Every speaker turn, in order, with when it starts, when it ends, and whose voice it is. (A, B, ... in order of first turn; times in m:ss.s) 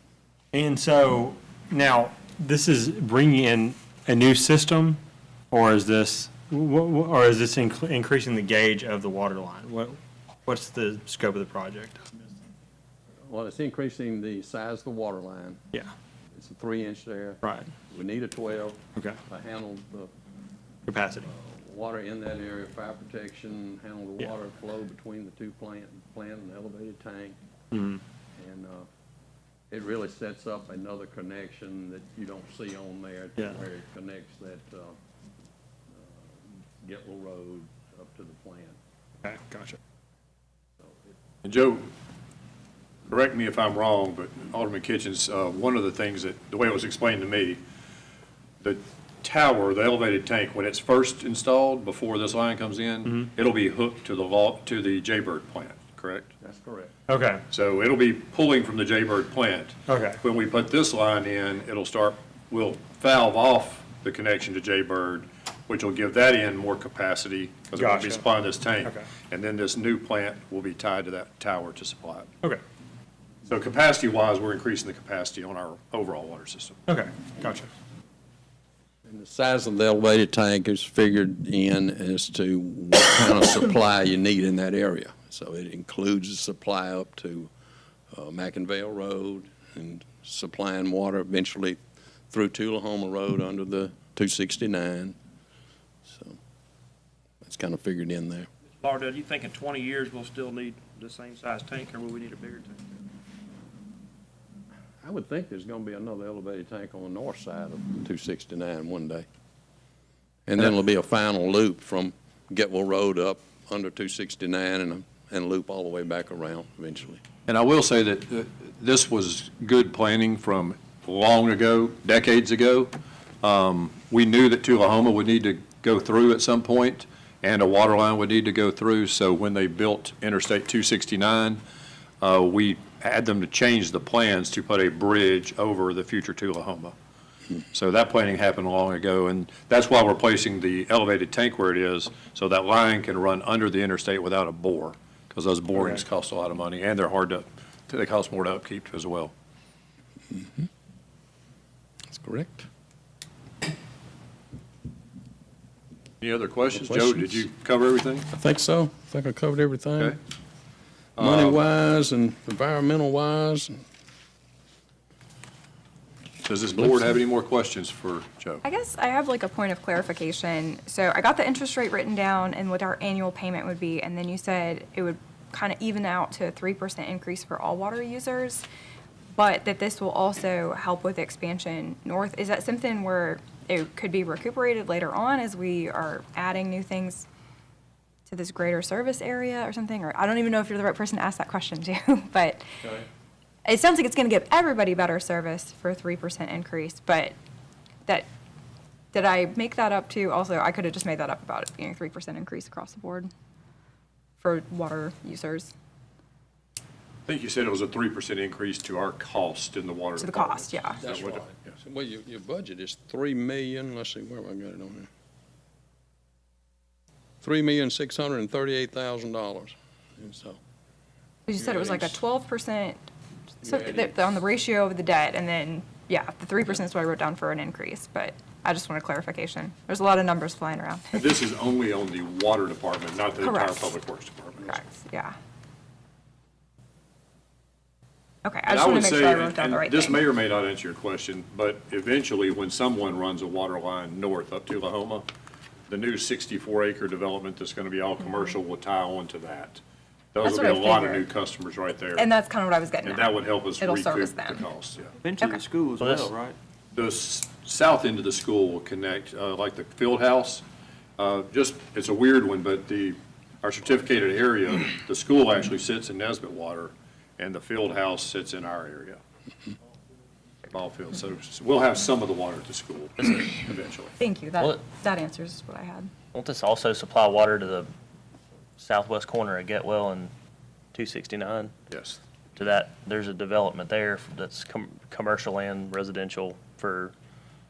0:00.5-0:12.4 A
0:13.2-0:15.6 B
0:16.3-0:20.1 B
0:17.4-0:17.7 A
0:20.9-0:21.3 A
0:21.3-0:27.4 B
0:27.7-0:28.0 A
0:28.4-0:28.9 B
0:29.7-0:35.0 B
0:35.9-0:38.8 B
0:39.2-0:39.8 A
0:40.8-0:41.1 B
0:41.4-0:41.9 C
0:43.1-0:47.6 C
0:48.6-0:56.3 C
0:56.4-0:56.9 B
0:57.1-0:57.4 A
0:57.5-1:12.3 C
0:59.9-1:00.2 A
1:07.8-1:08.2 A
1:13.5-1:16.8 C
1:16.9-1:17.7 A
1:19.1-1:27.5 B
1:28.1-1:31.8 B
1:32.3-1:35.2 B
1:36.1-1:36.4 B
1:37.4-1:38.5 B
1:38.8-1:42.9 D
1:45.0-1:49.3 B
1:50.5-1:57.2 B
1:57.5-2:02.9 C
2:03.4-2:11.6 C
2:12.2-2:16.9 C
2:17.7-2:29.3 C
2:30.3-2:30.6 B
2:32.1-2:32.7 B
2:36.2-2:38.3 C
2:36.7-2:37.5 B
2:38.3-2:40.2 B
2:41.2-2:41.6 C
2:41.2-2:43.8 B
2:46.5-2:48.6 C
2:48.6-2:58.7 E
2:59.4-3:07.3 E
3:08.3-3:12.7 E
3:13.6-3:17.3 E
3:19.1-3:23.3 E
3:24.4-3:25.7 E
3:27.3-3:31.5 C
3:30.2-3:31.0 E
3:31.0-3:35.1 B
3:37.4-3:40.6 B
3:41.5-3:43.1 E
3:41.6-3:42.2 B
3:43.6-3:44.1 B
3:43.6-3:51.2 E
3:51.1-3:54.8 C
3:53.4-3:53.8 E
3:54.6-3:55.4 E
3:58.4-4:00.2 E
3:58.7-4:05.3 C
4:05.9-4:09.8 C
4:10.3-4:12.2 C
4:10.4-4:11.3 E
4:12.2-4:14.6 E
4:13.0-4:15.1 C
4:15.2-4:16.6 D
4:16.0-4:16.3 F
4:16.9-4:20.6 C
4:21.2-4:29.2 C
4:30.7-4:34.2 C
4:34.2-4:36.1 E
4:36.3-4:37.9 F
4:38.8-4:40.3 F
4:40.9-4:41.7 F
4:41.9-4:42.2 C
4:42.6-4:47.1 F